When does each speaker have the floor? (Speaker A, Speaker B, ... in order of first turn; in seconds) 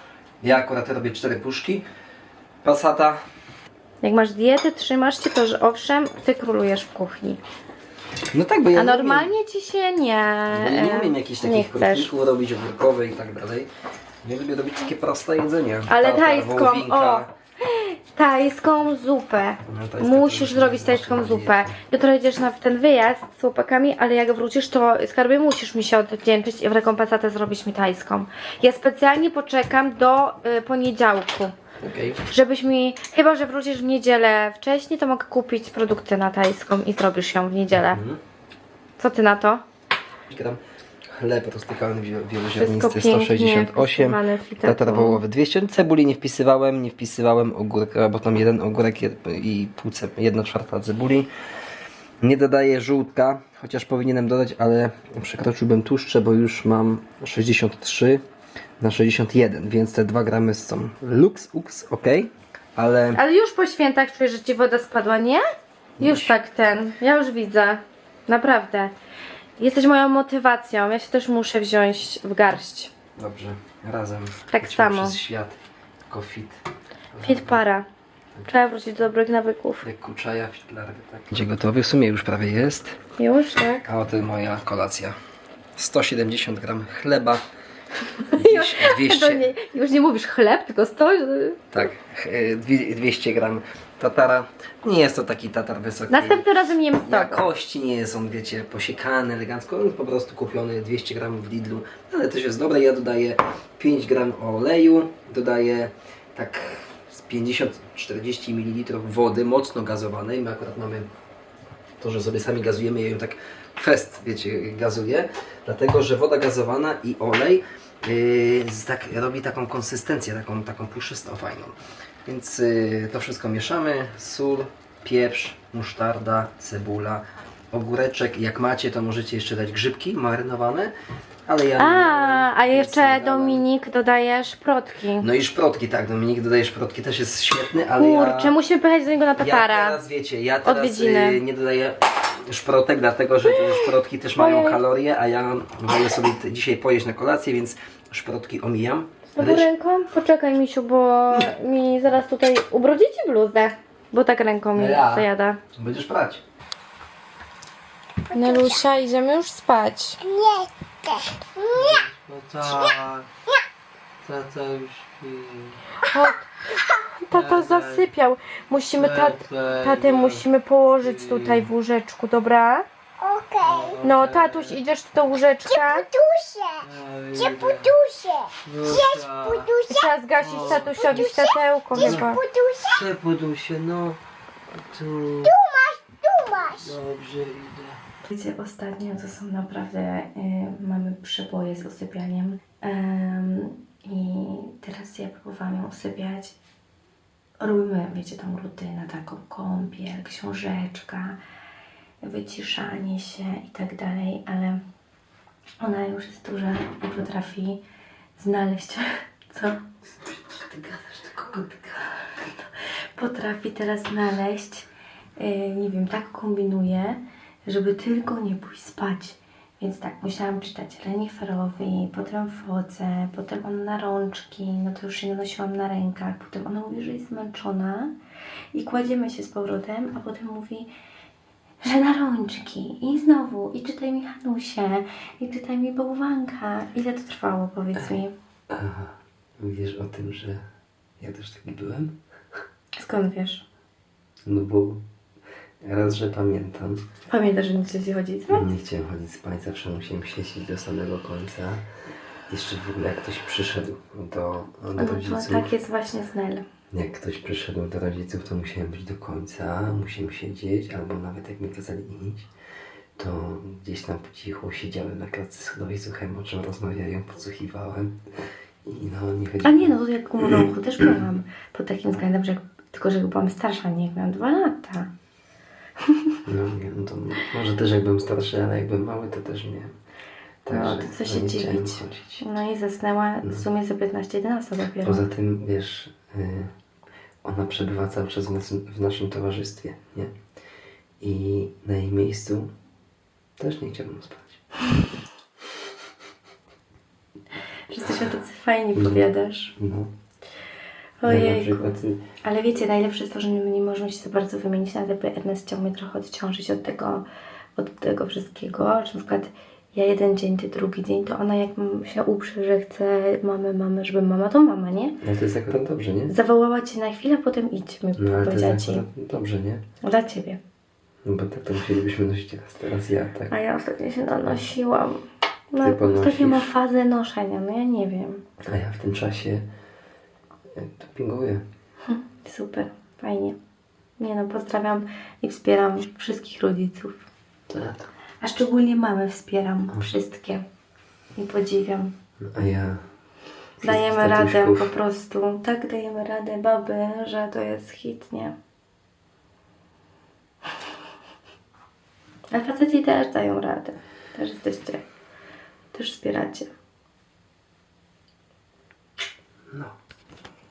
Speaker A: 0.4-1.9, 2.6-3.2, 8.3-9.3, 10.5-13.7, 14.2-17.3, 19.7-21.7, 31.8-32.2, 37.7-38.2, 40.3-40.6, 41.1-51.3, 52.2-58.2, 58.8-63.2, 66.0-66.3, 73.2-75.6, 76.1-76.6, 77.1-77.6, 79.8-83.0, 83.8-85.1, 85.8-87.4, 88.3-89.5, 91.7-96.5, 97.1-111.1, 112.0-130.9, 131.5-133.7, 135.2-138.5, 139.4-149.7, 154.8-156.4, 161.7-163.3, 164.2-165.8, 167.3-168.1, 168.9-170.4, 171.0-171.7, 173.6-174.8, 176.8-177.9, 178.6-179.7, 180.4-181.2, 181.9-182.3, 182.8-184.2, 184.7-185.5, 186.7-188.0, 210.2-211.8, 238.7-240.6, 241.2-242.2, 244.5-245.0, 245.8-247.0, 248.5-251.8, 252.5-255.7, 256.9-262.5, 263.2-268.2, 268.8-270.7, 276.5-279.9, 280.6-282.4, 285.0-286.7, 287.4-290.3, 291.2-292.7, 293.6-294.6, 298.9-299.2, 299.8-300.1, 301.2-302.2, 315.2-316.3, 318.2-319.8, 321.2-323.5, 325.8-326.7, 328.7-329.7, 330.7-331.6, 337.7-338.1, 342.4-343.0, 343.8-344.9
Speaker B: 4.0-7.4, 8.8-12.1, 15.9-31.5, 32.3-38.0, 39.0-39.6, 42.5-45.2, 63.1-65.4, 66.0-68.9, 69.6-72.9, 74.5-75.2, 77.2-77.9, 78.5-79.8, 83.2-83.9, 88.2-91.9, 96.1-97.5, 131.8-135.3, 138.0-140.0, 140.6-141.4, 144.3-144.8, 149.3-155.6, 158.3-160.2, 166.0-172.9, 174.0-176.1, 179.9-182.4, 188.3-196.5, 197.6-201.4, 202.2-204.8, 205.8-207.8, 208.4-209.8, 211.8-212.5, 213.2-214.9, 215.4-228.1, 228.7-230.9, 231.8-238.3, 243.0-243.7, 247.3-248.7, 255.0-256.6, 269.6-275.1, 276.1-276.4, 280.7-285.2, 297.9-299.7, 301.2-307.2, 307.8-315.2, 316.3-319.0, 320.0-320.6, 323.5-328.4, 332.1-333.6, 334.2-337.2, 338.4-340.6, 341.4-342.1, 343.8-348.6, 352.5-355.0, 355.9-356.7
Speaker C: 158.3-158.7, 160.2-162.0, 173.2-174.0, 175.8-180.0, 181.1-183.0, 185.4-186.9